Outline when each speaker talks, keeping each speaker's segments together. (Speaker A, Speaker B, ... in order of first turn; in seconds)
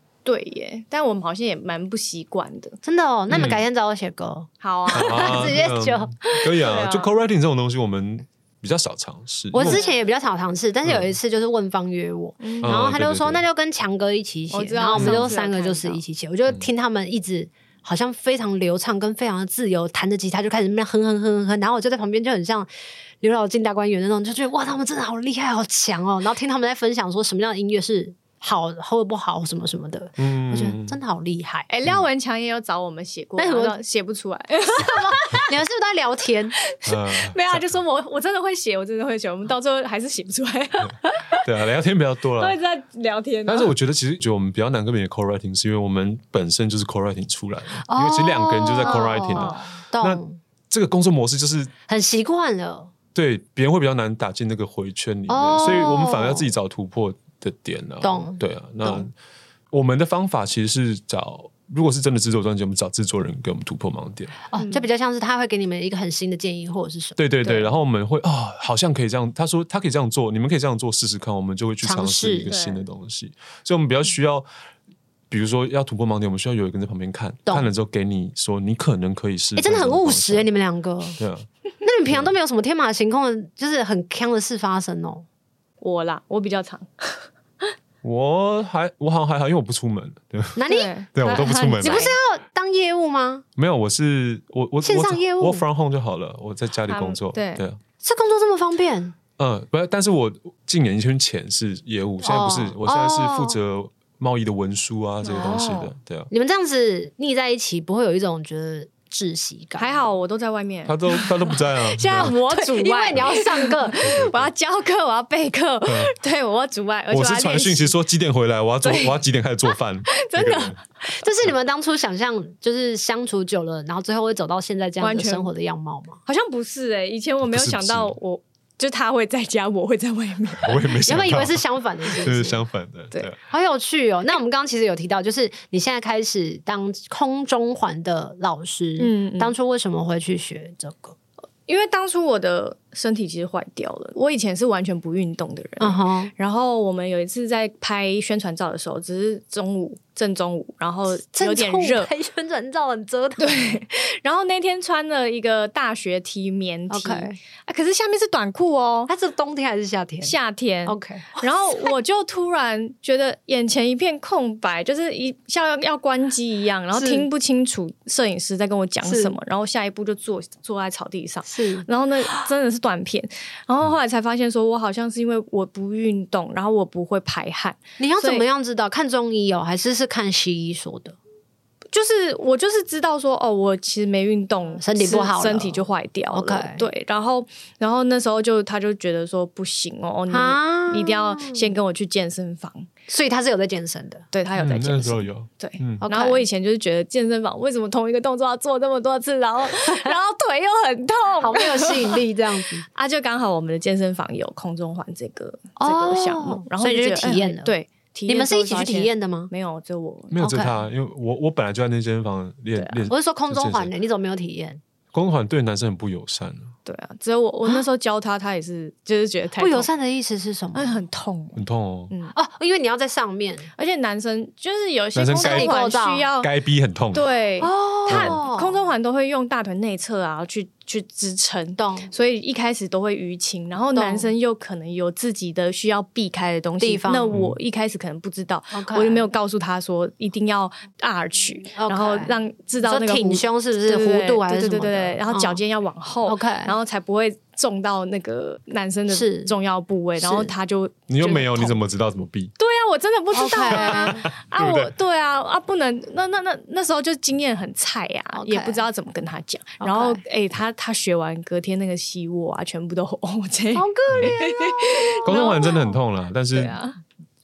Speaker A: 0.2-2.8, 4.6-5.6, 6.2-7.1, 9.6-10.0, 12.4-12.8, 14.5-16.0, 31.7-35.5, 36.8-41.1, 42.4-43.7, 48.8-49.6, 64.6-64.8, 72.5-72.8, 85.8-87.7, 90.7-92.1, 96.9-97.6, 105.2-105.8, 109.8-118.0, 118.8-119.2, 120.1-120.8, 125.0-125.5, 126.2-130.9, 139.0-139.5, 141.7-152.1, 153.4-159.1, 160.2-178.4, 181.9-192.9, 194.3-202.2, 202.9-210.4, 212.8-213.1, 216.8-219.9, 220.7-222.3, 223.8-226.5, 227.1-251.8, 252.6-265.9, 266.5-267.0
Speaker B: 2.8-6.2, 9.5-22.7, 23.2-31.7, 33.4-33.8, 34.8-36.5, 47.9-50.4, 51.9-52.9, 55.3-56.5, 58.0-59.1, 64.5-67.6, 71.8-72.5, 79.5-81.2, 81.8-85.2, 90.5-90.9, 91.8-93.4, 94.8-95.7, 98.0-99.1, 102.2-103.6, 105.3-110.0, 112.2-114.1, 121.2-126.2, 131.0-132.6, 133.5-141.2, 145.8-146.3, 151.2-153.8, 156.9-157.4, 159.1-160.3, 160.8-161.9, 166.9-167.3, 169.0-169.3, 171.5-171.8, 178.0-181.2, 184.8-186.8, 190.3-191.7, 193.1-194.2, 196.0-196.4, 201.4-202.8, 205.8-207.7, 208.3-209.5, 210.4-210.8, 213.1-214.8, 219.6-221.0, 222.3-223.7, 225.3-226.3, 227.6-228.7, 231.8-232.1, 233.9-234.3, 236.8-237.3, 238.7-239.3, 241.7-245.6, 246.2-246.7, 249.1-249.5, 250.2-250.5, 253.3-254.2, 258.3-258.8, 259.8-260.2, 263.7-265.7
Speaker C: 3.3-3.6, 4.9-9.8, 12.6-13.4, 14.9-15.3, 30.2-31.0, 36.8-37.7, 41.4-42.6, 43.5-51.7, 53.1-59.1, 59.7-64.3, 67.2-74.5, 75.3-80.5, 81.2-81.5, 88.0-92.1, 93.6-97.8, 99.4-106.3, 110.8-112.3, 114.0-114.5, 115.9-116.1, 117.1-120.8, 127.5-128.1, 130.6-133.4, 194.6-196.0, 210.3-213.9, 215.1-216.7, 221.6-222.1, 225.2-225.8, 226.4-227.3, 228.1-228.4, 251.1-252.5, 253.7-254.9, 265.2-266.8